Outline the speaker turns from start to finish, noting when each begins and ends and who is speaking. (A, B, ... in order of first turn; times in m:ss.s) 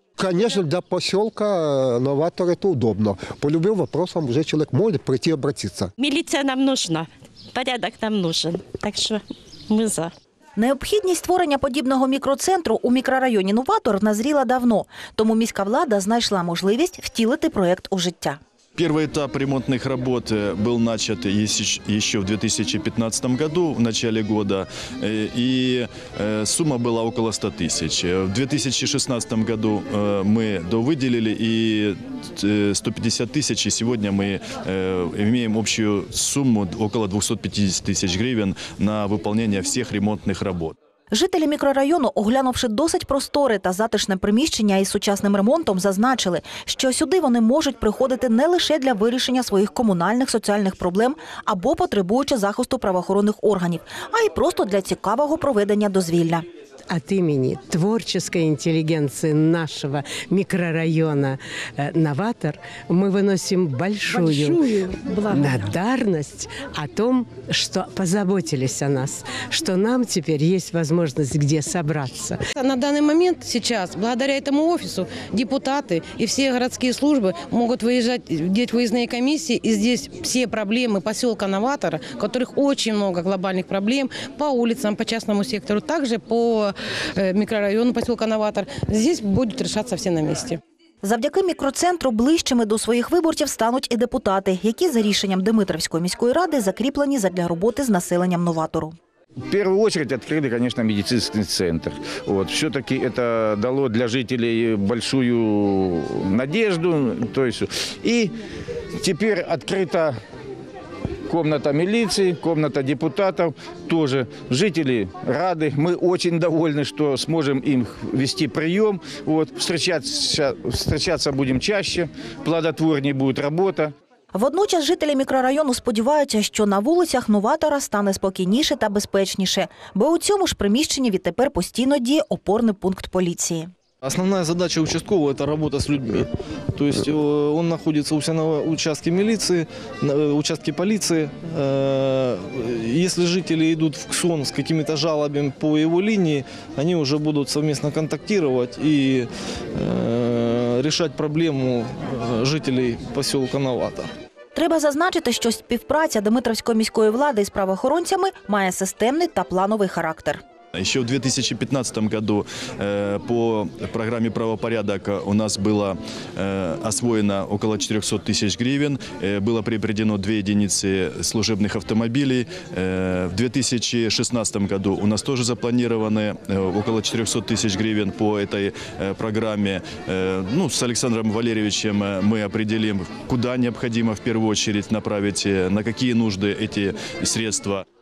0:00.2-0:05.9 A
0:06.0-0:10.1 B
0:10.6-0:18.4 C
0:18.8-0:40.7 D
0:41.1-0:56.4 C
0:56.9-1:12.4 E
1:12.6-1:30.6 F
1:31.0-1:38.9 C
1:39.5-1:48.3 G
1:49.0-1:50.1 G
1:51.3-2:03.9 G
2:04.3-2:13.7 C
2:14.0-2:34.1 H
2:34.5-2:40.4 C
2:40.7-3:07.8 D